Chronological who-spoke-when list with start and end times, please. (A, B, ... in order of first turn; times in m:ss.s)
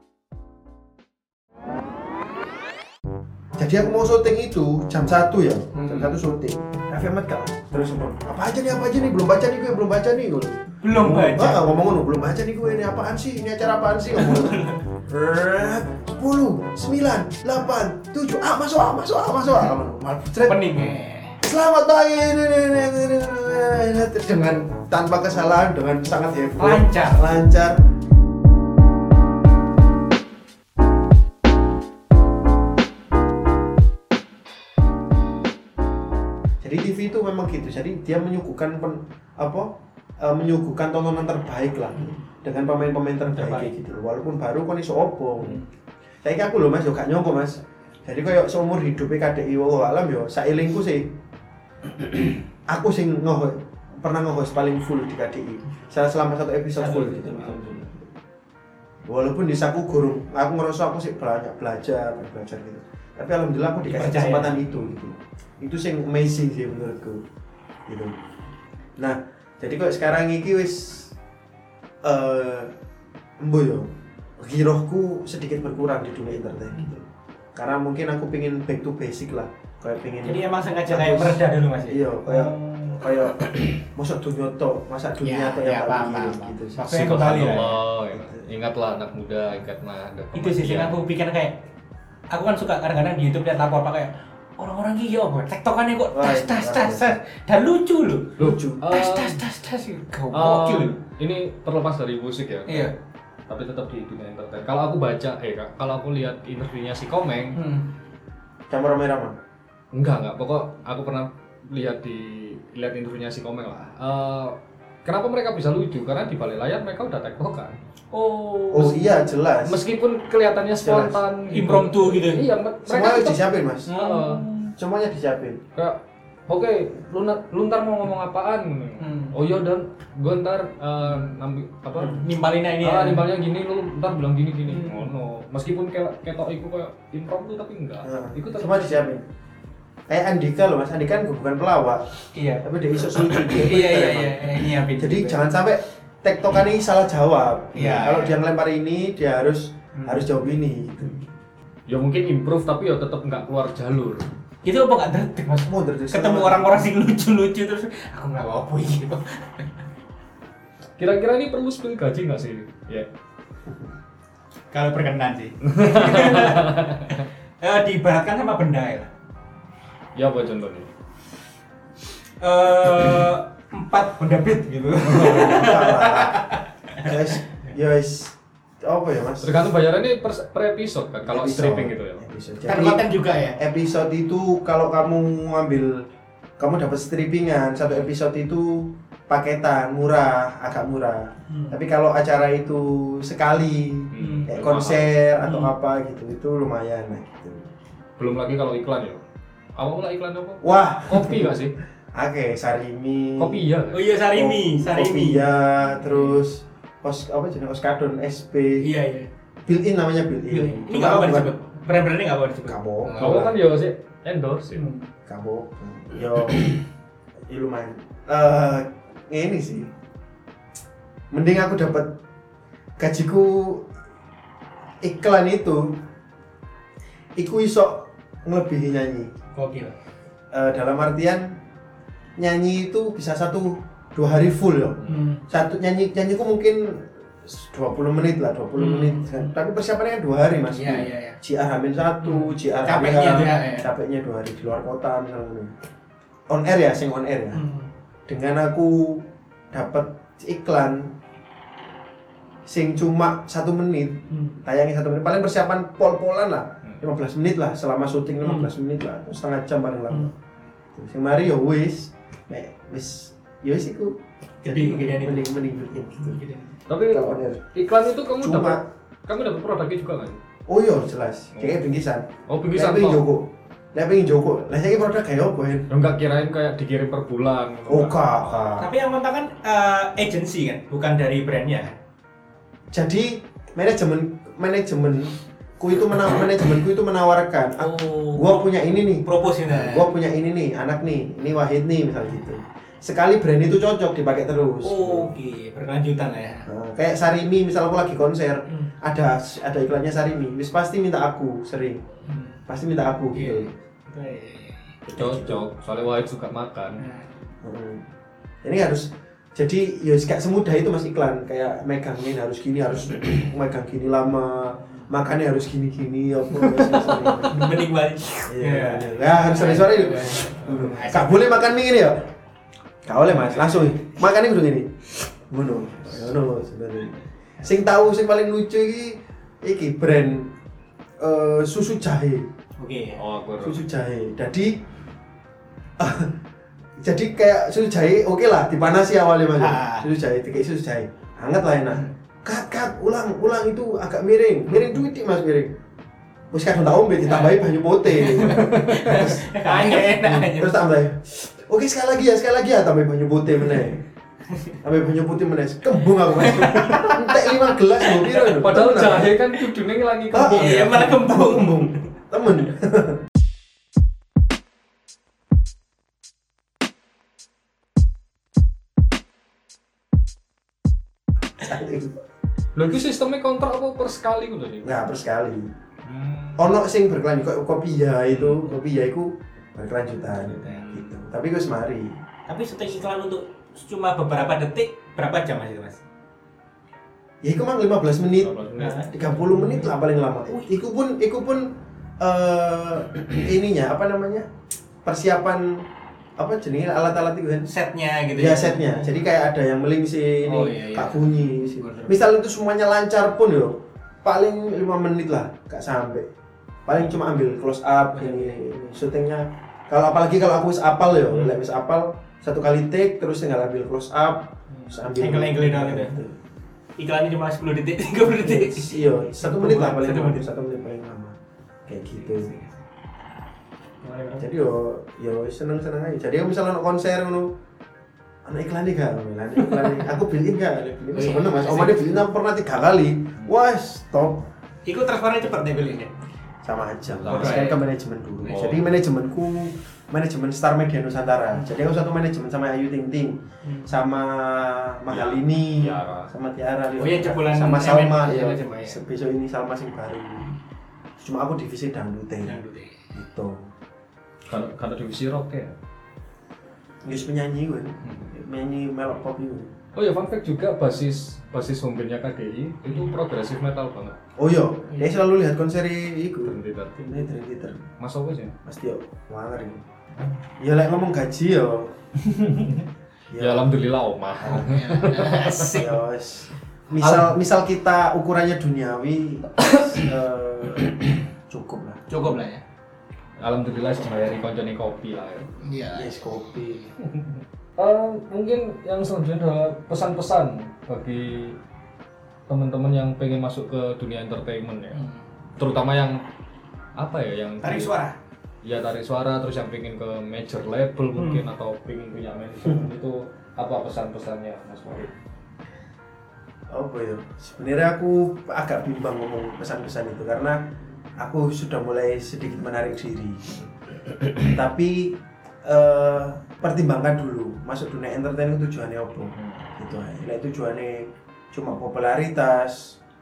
0:03.6-0:20.9 A
0:05.7-0:06.2 B
0:10.8-0:11.7 B
0:14.2-0:14.8 B
0:20.4-0:21.4 B
0:21.4-0:27.8 A
0:26.6-0:27.3 B
0:36.6-0:45.6 A
0:43.3-0:43.7 B
0:45.4-0:45.6 B
0:46.2-0:51.1 A
0:52.0-0:58.1 A
0:56.7-0:57.8 B
0:59.0-1:07.2 A
1:03.9-1:05.0 B
1:07.9-1:08.2 A
1:09.0-1:11.1 A
1:12.0-1:12.7 A
1:13.4-1:26.8 A
1:20.2-1:23.3 B
1:25.2-1:27.8 B
1:26.9-1:31.0 C
1:28.1-1:28.4 A
1:30.3-1:31.6 B
1:32.3-1:41.0 B
1:36.1-1:37.2 A
1:38.4-1:39.4 C
1:38.4-1:38.8 A
1:40.3-1:42.9 C
1:42.7-1:42.9 B
1:43.5-1:47.6 C
1:47.6-1:47.9 B
1:48.7-1:49.4 A
1:49.9-1:57.8 C
1:58.1-1:59.3 B
1:58.7-1:59.8 A
1:59.6-2:04.4 C
2:00.8-2:01.2 A
2:01.5-2:02.4 B
2:02.8-2:03.9 A
2:03.9-2:04.7 B
2:04.8-2:05.6 A
2:05.7-2:12.2 C
2:09.0-2:09.4 B
2:11.1-2:11.4 B
2:12.0-2:13.3 B
2:12.8-2:19.2 C
2:14.7-2:15.1 B
2:18.0-2:19.2 A
2:20.1-2:31.2 A
2:22.3-2:25.4 B
2:27.7-2:28.4 B
2:30.0-2:30.3 B
2:31.9-2:34.2 C
2:34.6-2:39.7 B
2:35.6-2:36.8 A
2:41.0-2:43.1 C
2:44.7-2:49.1 B
2:45.7-2:47.2 C
2:50.1-2:50.9 C
2:52.4-2:57.7 B
2:55.0-2:55.5 C
2:55.1-2:56.4 A
2:57.0-2:59.7 A
2:59.4-3:02.2 C
3:01.2-3:06.0 A
3:02.6-3:03.6 B
3:06.6-3:17.7 A
3:11.5-3:11.8 B
3:14.1-3:15.1 C
3:14.2-3:14.5 B
3:15.4-3:15.7 B
3:18.2-3:19.2 C
3:19.8-3:21.7 C
3:20.6-3:21.6 A
3:22.1-3:23.7 A
3:23.4-3:24.0 C
3:23.9-3:25.5 B
3:24.3-3:28.9 A
3:26.0-3:26.4 B
3:28.8-3:29.3 B
3:29.6-3:31.5 A
3:30.5-3:33.5 B
3:32.6-3:33.5 A
3:33.2-3:34.8 C
3:34.7-3:35.1 B
3:35.2-3:36.8 A
3:37.5-3:39.9 A
3:41.3-3:42.2 A
3:43.0-3:43.8 A
3:45.0-3:46.0 A
3:47.4-3:49.3 A
3:49.5-3:49.9 B
3:50.5-3:51.6 A
3:52.4-4:05.7 A
3:55.1-3:55.4 B
3:58.7-3:59.5 B
4:00.7-4:01.4 B
4:02.2-4:03.9 B
4:06.5-4:07.6 A
4:07.5-4:07.9 B
4:08.3-4:11.1 A
4:12.6-4:20.3 A
4:14.3-4:14.6 B
4:18.4-4:18.7 B
4:20.9-4:26.4 A
4:24.6-4:25.5 B
4:26.2-4:26.7 B
4:26.9-4:30.4 C
4:27.0-4:27.6 A
4:28.4-4:28.8 A
4:30.7-4:35.9 A
4:31.5-4:31.9 C
4:32.5-4:33.2 C
4:35.9-4:38.2 C
4:37.9-4:38.9 A
4:38.6-4:42.0 B
4:42.9-4:55.3 A
4:47.8-4:50.2 B
4:54.8-4:56.7 B
4:56.6-5:02.0 A
5:02.2-5:02.6 B
5:02.7-5:03.7 A
5:03.3-5:05.0 B
5:05.1-5:07.0 C
5:05.1-5:05.6 A
5:07.0-5:07.3 B
5:07.6-5:08.0 A
5:08.6-5:17.8 A
5:16.7-5:21.6 B
5:18.5-5:22.3 A
5:23.0-5:30.5 A
5:23.3-5:24.0 B
5:31.2-5:32.5 A
5:32.8-5:33.2 B
5:33.2-5:33.8 C
5:33.6-5:34.7 A
5:36.0-5:36.3 A
5:37.0-5:45.7 A
5:39.6-5:40.1 B
5:46.5-5:54.0 A
5:47.2-5:50.8 B
5:54.8-5:59.4 A
5:56.3-5:58.3 B
5:58.3-6:01.1 C
6:00.3-6:03.2 A
6:00.5-6:02.1 B
6:11.6-6:12.1 A
6:12.7-6:15.0 C
6:14.8-6:15.7 A
6:16.0-6:16.7 C
6:16.6-6:22.2 A
6:18.3-6:18.8 B
6:20.6-6:21.0 B
6:20.7-6:21.2 C
6:22.5-6:26.0 B
6:27.4-6:34.5 A
6:28.4-6:29.0 C
6:28.8-6:29.9 B
6:35.0-6:35.9 A
6:36.4-6:37.7 A
6:37.6-6:39.2 B
6:38.3-6:46.3 A
6:40.4-6:42.2 B
6:46.8-6:56.4 A
6:48.1-6:48.6 B
6:51.3-6:51.6 B
6:54.7-6:56.2 B
6:57.0-7:00.5 B
6:58.3-7:02.5 A
7:02.1-7:02.8 B
7:04.0-7:04.4 B
7:04.4-7:07.5 A
7:08.4-7:14.5 A
7:11.1-7:12.0 B
7:14.8-7:16.1 B
7:16.6-7:30.5 A
7:17.2-7:17.7 C
7:17.3-7:17.8 B
7:18.4-7:18.8 C
7:23.6-7:23.9 B
7:25.1-7:25.4 B
7:25.7-7:26.3 C
7:27.0-7:29.0 B
7:31.2-7:32.6 A
7:32.4-7:32.9 B
7:33.1-7:33.7 A
7:34.5-7:35.8 C
7:37.0-7:39.7 A
7:40.0-7:44.2 C
7:44.4-7:47.9 A
7:44.9-7:45.2 B
7:46.4-7:47.0 C
7:48.0-7:48.5 C
7:48.6-7:49.8 A
7:50.6-7:51.9 A
7:52.3-7:52.8 C
7:53.3-7:53.7 A
7:53.4-7:55.8 C
7:54.4-7:56.0 B
7:55.7-8:02.0 A
7:57.0-7:57.4 C
8:02.1-8:02.6 B
8:03.4-8:05.5 C
8:05.6-8:06.1 B
8:05.9-8:06.9 A
8:07.8-8:11.6 C
8:12.5-8:15.0 C
8:15.6-8:16.2 C
8:17.0-8:18.0 C
8:17.6-8:18.2 B
8:18.6-8:25.1 C
8:21.2-8:21.4 B
8:26.7-8:30.6 A
8:31.2-8:33.6 A
8:34.4-8:43.0 A
8:39.3-8:39.7 C